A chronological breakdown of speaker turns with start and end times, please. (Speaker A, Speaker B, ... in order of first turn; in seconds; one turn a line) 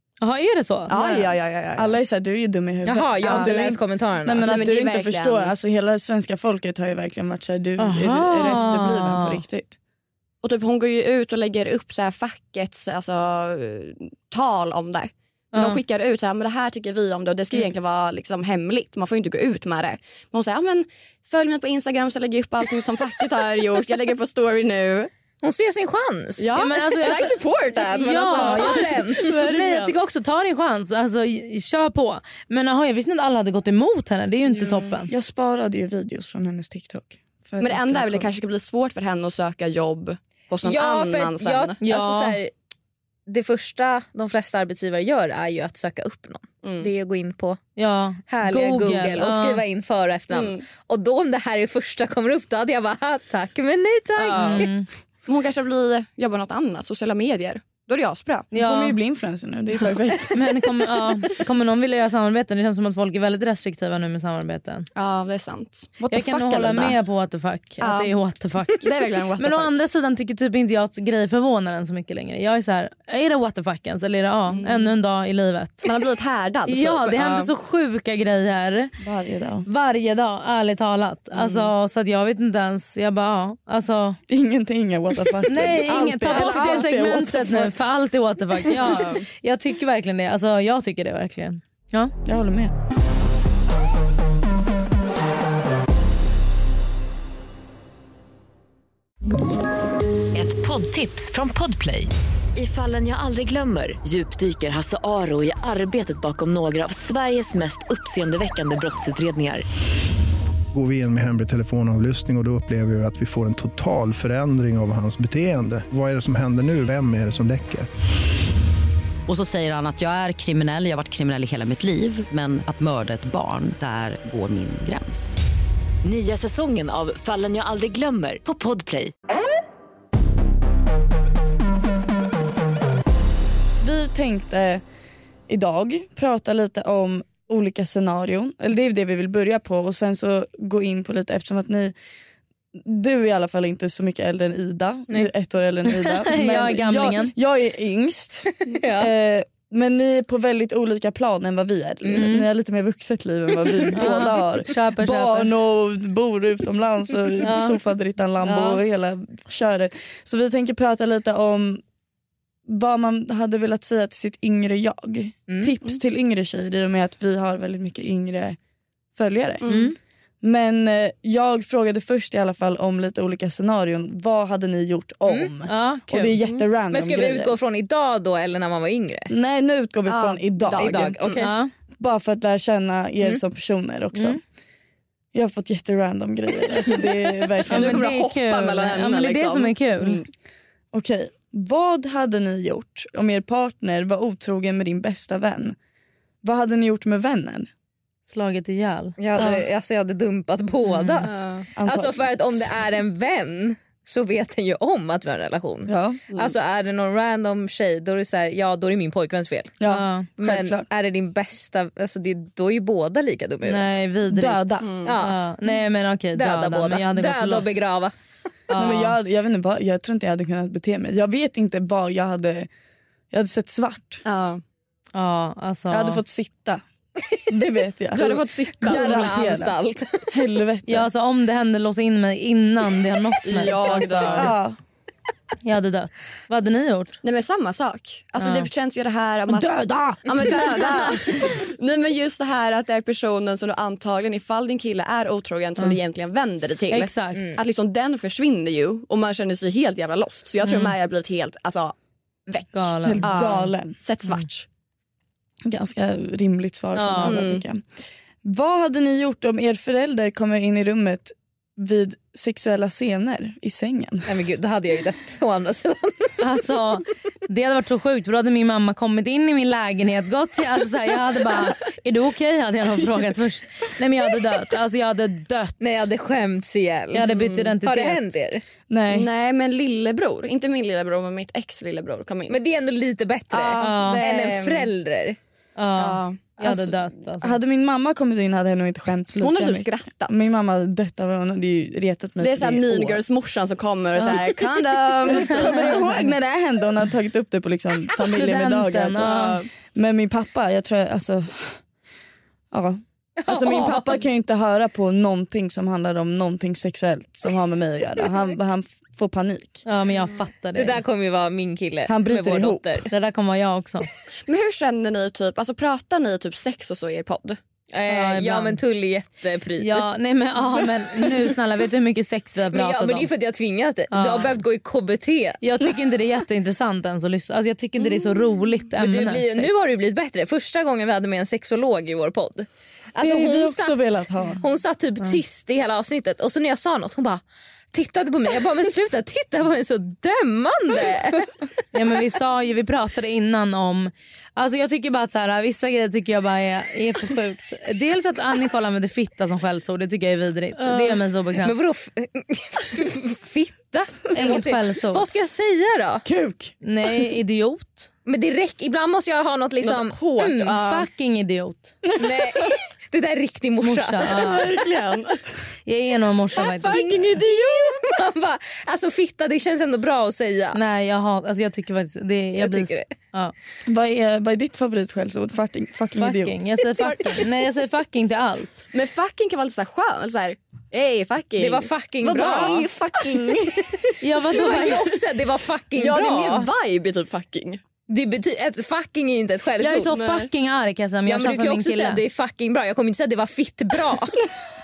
Speaker A: 0.2-1.2
Speaker B: 0.9-2.0
Speaker C: 1.8-9.8
Speaker D: 2.9-4.6
Speaker A: 2.9-3.2
Speaker B: 4.5-5.5
Speaker A: 7.8-9.4
Speaker B: 10.4-25.1
Speaker A: 15.5-15.8
Speaker D: 25.4-27.3
Speaker B: 26.4-29.9
Speaker A: 26.6-35.1
Speaker D: 28.3-29.3
Speaker C: 35.1-38.3
Speaker B: 37.6-41.8
Speaker D: 40.6-42.5
Speaker A: 41.8-42.4
Speaker D: 43.3-47.6
Speaker B: 46.6-46.9
Speaker A: 47.8-49.6
Speaker D: 48.3-54.7
Speaker B: 50.3-50.6
Speaker B: 54.2-54.7
Speaker A: 54.4-54.9
Speaker B: 55.3-58.5
Speaker A: 58.5-59.0
Speaker C: 58.5-60.7
Speaker A: 60.3-64.9
Speaker B: 65.0-66.0
Speaker C: 66.0-67.0
Speaker A: 66.1-75.9
Speaker B: 67.8-68.1
Speaker B: 68.8-69.8
Speaker B: 74.5-74.9
Speaker B: 75.8-77.5
Speaker A: 76.7-78.9
Speaker C: 79.0-79.7
Speaker A: 79.7-84.2
Speaker B: 81.3-81.7
Speaker C: 84.3-87.8
Speaker A: 85.5-92.1
Speaker B: 88.7-89.3
Speaker C: 92.2-92.7
Speaker E: 100.3-109.7
Speaker F: 110.7-117.9
Speaker G: 119.3-125.4
Speaker E: 126.0-129.1
Speaker C: 133.8-134.8
Speaker C: 135.5-141.9
Speaker C: 142.8-161.8
Speaker A: 145.9-147.3
Speaker D: 148.7-149.1
Speaker D: 152.0-152.3
Speaker A: 152.2-152.4
Speaker D: 153.6-154.2
Speaker A: 153.9-155.5
Speaker A: 157.4-157.8
Speaker A: 158.4-158.8
Speaker C: 162.7-168.6
Speaker D: 165.5-165.8
Speaker C: 169.2-169.7
Speaker B: 169.6-169.9
Speaker A: 169.7-170.0
Speaker C: 170.4-177.6
Speaker D: 175.3-175.5
Speaker A: 175.7-176.4
Speaker D: 176.9-179.3
Speaker C: 179.3-181.2
Speaker B: 180.1-181.5
Speaker D: 180.7-181.5
Speaker A: 181.4-181.7
Speaker C: 182.0-184.4
Speaker C: 185.3-188.1
Speaker B: 187.6-190.2
Speaker A: 187.7-190.2
Speaker C: 190.9-195.8
Speaker C: 196.4-197.7
Speaker A: 198.3-199.2
Speaker D: 199.2-201.3
Speaker A: 200.9-201.3
Speaker B: 201.2-201.7
Speaker C: 201.8-202.8
Speaker D: 201.8-209.8
Speaker C: 205.9-206.4
Speaker C: 209.8-210.8
Speaker A: 209.9-210.3
Speaker D: 210.4-214.0
Speaker A: 213.7-217.7
Speaker C: 214.3-214.9
Speaker B: 214.8-215.2
Speaker D: 215.0-215.4
Speaker D: 216.3-218.1
Speaker A: 218.7-219.2
Speaker C: 218.8-222.7
Speaker C: 223.3-224.2
Speaker B: 224.2-224.6
Speaker A: 225.2-226.2
Speaker C: 225.9-226.8
Speaker C: 227.5-229.8
Speaker B: 228.2-229.3
Speaker D: 228.8-230.3
Speaker C: 230.3-231.1
Speaker A: 230.9-234.5
Speaker B: 233.5-234.6
Speaker C: 233.6-234.8
Speaker A: 235.7-237.2
Speaker B: 237.2-251.9
Speaker A: 238.4-238.7
Speaker C: 239.5-240.8
Speaker D: 240.3-240.9
Speaker A: 246.9-247.5
Speaker A: 250.6-250.9
Speaker B: 252.5-254.7
Speaker A: 252.7-253.7
Speaker C: 253.0-254.0
Speaker C: 255.7-257.9
Speaker A: 256.9-257.5
Speaker B: 257.2-257.6
Speaker C: 258.4-264.3
Speaker D: 264.3-266.3
Speaker A: 266.4-275.8
Speaker D: 275.8-278.6
Speaker A: 277.1-278.3
Speaker C: 278.9-279.3
Speaker B: 279.1-282.6
Speaker D: 282.5-285.4
Speaker B: 283.5-284.9
Speaker A: 283.8-284.2
Speaker A: 285.8-287.6
Speaker B: 285.9-286.9
Speaker C: 287.4-293.2
Speaker B: 289.4-290.6
Speaker B: 292.4-296.3
Speaker C: 295.3-299.4
Speaker A: 298.3-299.6
Speaker B: 299.2-299.7
Speaker C: 299.9-301.8
Speaker C: 302.7-309.8
Speaker D: 303.4-304.2
Speaker A: 309.9-311.0
Speaker D: 310.8-313.1
Speaker C: 312.1-312.9
Speaker A: 313.1-314.1
Speaker B: 314.4-317.6
Speaker D: 317.9-320.1
Speaker A: 318.1-318.8
Speaker A: 319.8-323.3
Speaker D: 322.7-325.6
Speaker A: 324.1-324.6
Speaker A: 325.6-329.7
Speaker D: 328.9-334.1
Speaker C: 333.2-334.6
Speaker D: 334.6-337.4
Speaker D: 337.9-341.5
Speaker A: 341.9-351.7
Speaker D: 350.9-356.2
Speaker A: 354.3-355.2
Speaker C: 356.2-356.8
Speaker A: 356.8-358.1
Speaker D: 358.3-360.8
Speaker B: 359.8-361.1
Speaker A: 360.8-362.0
Speaker C: 362.1-362.7
Speaker D: 362.2-364.4
Speaker A: 363.8-364.6
Speaker B: 364.3-365.4
Speaker A: 365.9-367.0
Speaker B: 366.6-368.0
Speaker D: 366.9-370.8
Speaker A: 370.7-373.5
Speaker D: 372.6-373.1
Speaker C: 373.9-376.6
Speaker A: 376.2-378.8
Speaker B: 378.9-384.0
Speaker D: 381.6-382.9
Speaker C: 382.2-384.0
Speaker A: 384.2-385.0
Speaker D: 384.5-386.7
Speaker B: 385.9-387.8
Speaker D: 388.1-390.1
Speaker A: 389.8-392.2
Speaker B: 390.1-390.5
Speaker D: 391.3-394.4